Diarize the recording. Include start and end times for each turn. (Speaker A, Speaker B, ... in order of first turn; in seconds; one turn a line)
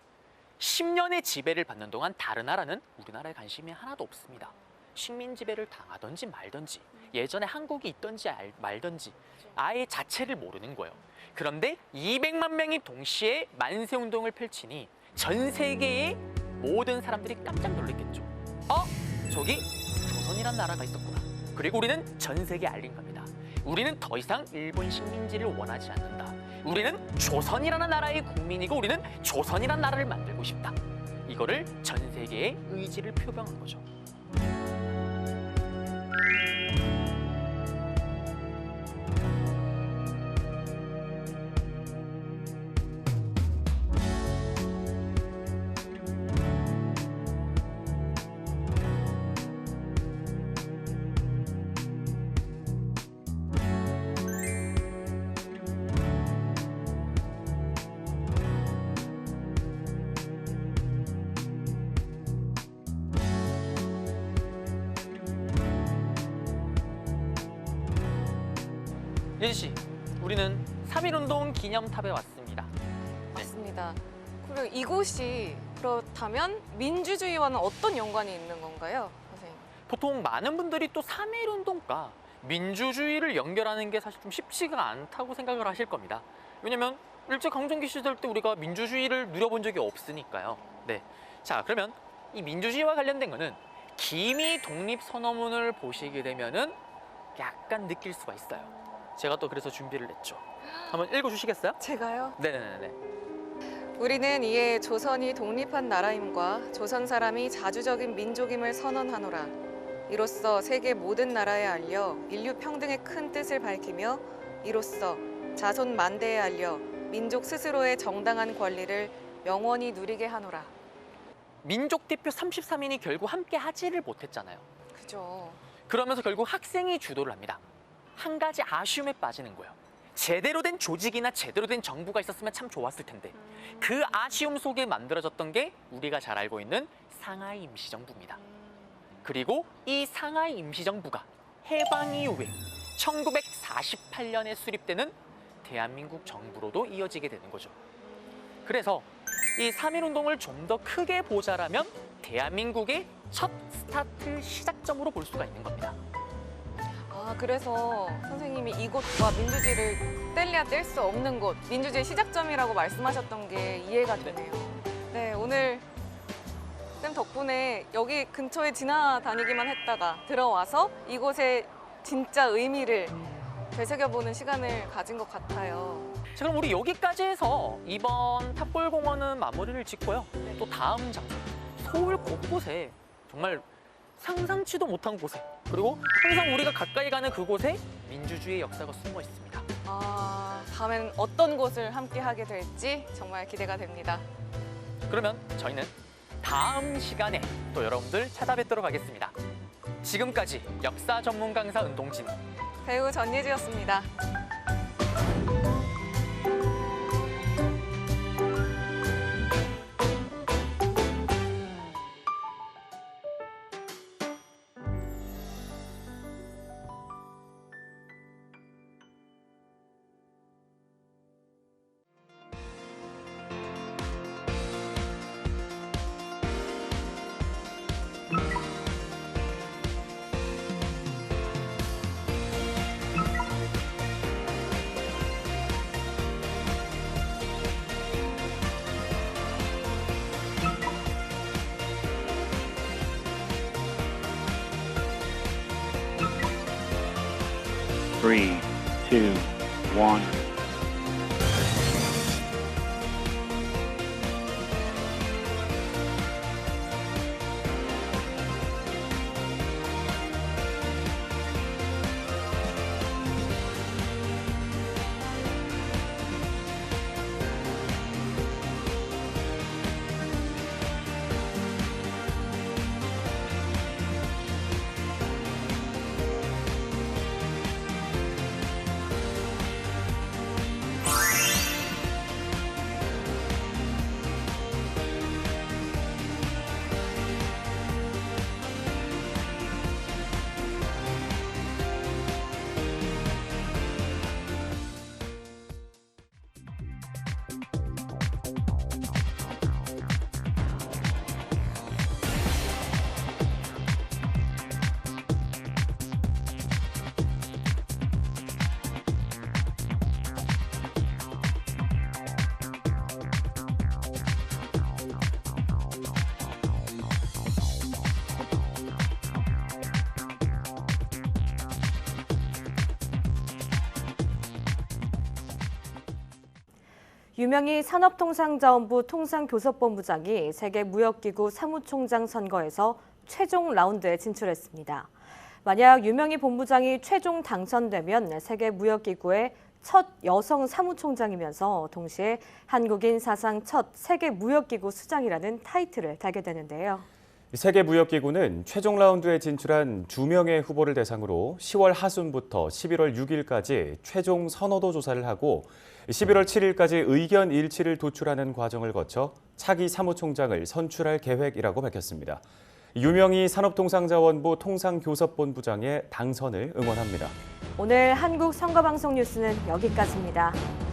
Speaker A: 0.6-33.8
Speaker A: 69.4-72.7
Speaker B: 73.3-79.7
Speaker A: 79.9-96.8
Speaker A: 97.3-101.8
Speaker B: 101.8-102.3
Speaker A: 102.3-103.0
Speaker B: 104.0-120.7
Speaker A: 121.6-124.7
Speaker B: 124.9-125.6
Speaker A: 125.9-127.6
Speaker A: 128.2-138.4
Speaker A: 139.2-147.7
Speaker A: 148.6-156.0
Speaker B: 157.1-165.8
Speaker B: 167.0-176.1
Speaker A: 176.3-183.7
Speaker A: 184.2-189.7
Speaker B: 189.8-194.2
Speaker A: 195.0-199.3
Speaker A: 200.0-202.4
Speaker B: 202.8-204.1
Speaker C: 248.2-250.4
Speaker D: 327.4-335.1
Speaker D: 335.6-347.1
Speaker E: 347.5-362.4
Speaker E: 362.9-367.3
Speaker D: 367.8-370.6